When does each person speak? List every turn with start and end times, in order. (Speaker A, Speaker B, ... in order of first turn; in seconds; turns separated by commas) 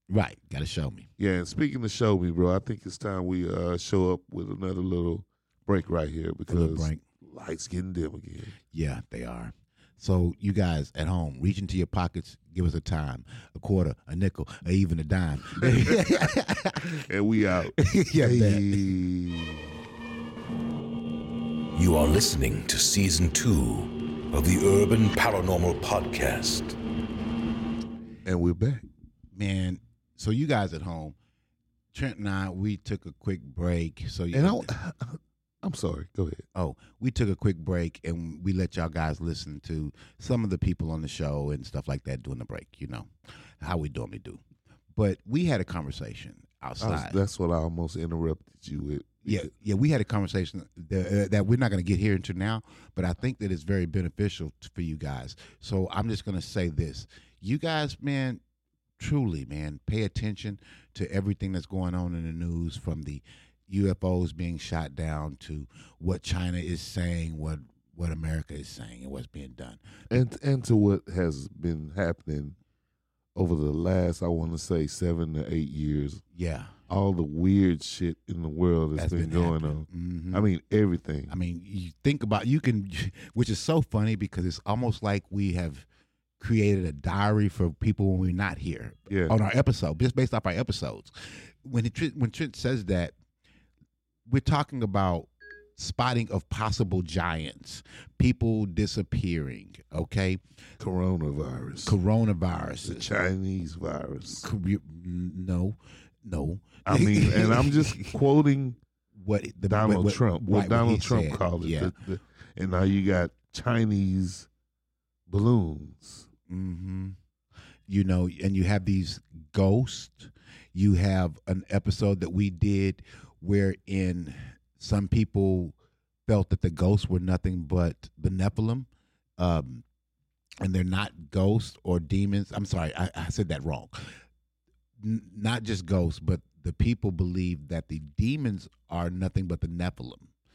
Speaker A: 0.1-1.1, Speaker B: 1.2-8.6, Speaker A: 6.5-7.0, Speaker A: 8.7-16.9, Speaker B: 15.6-16.2, Speaker B: 16.8-19.8, Speaker A: 17.8-18.9, Speaker C: 21.7-26.8, Speaker B: 28.2-28.9, Speaker A: 29.3-31.2, Speaker A: 31.9-34.7, Speaker B: 34.3-36.5, Speaker A: 36.5-44.4, Speaker A: 45.0-47.2, Speaker B: 46.8-49.5, Speaker A: 49.2-58.4, Speaker A: 59.0-69.8, Speaker B: 70.1-72.6, Speaker B: 73.3-76.2, Speaker A: 76.3-76.8, Speaker B: 76.9-81.3, Speaker A: 79.0-80.5, Speaker A: 81.3-85.9, Speaker A: 86.4-93.1, Speaker B: 89.1-89.4, Speaker A: 94.3-100.4, Speaker B: 100.8-102.0, Speaker A: 101.9-103.1, Speaker B: 102.8-104.5, Speaker A: 104.4-108.1, Speaker B: 106.8-108.8, Speaker A: 109.2-111.9, Speaker B: 109.7-114.5, Speaker B: 115.3-116.3, Speaker A: 116.5-117.2, Speaker A: 117.9-125.8, Speaker A: 126.3-129.8, Speaker A: 130.6-134.2, Speaker A: 135.0-140.3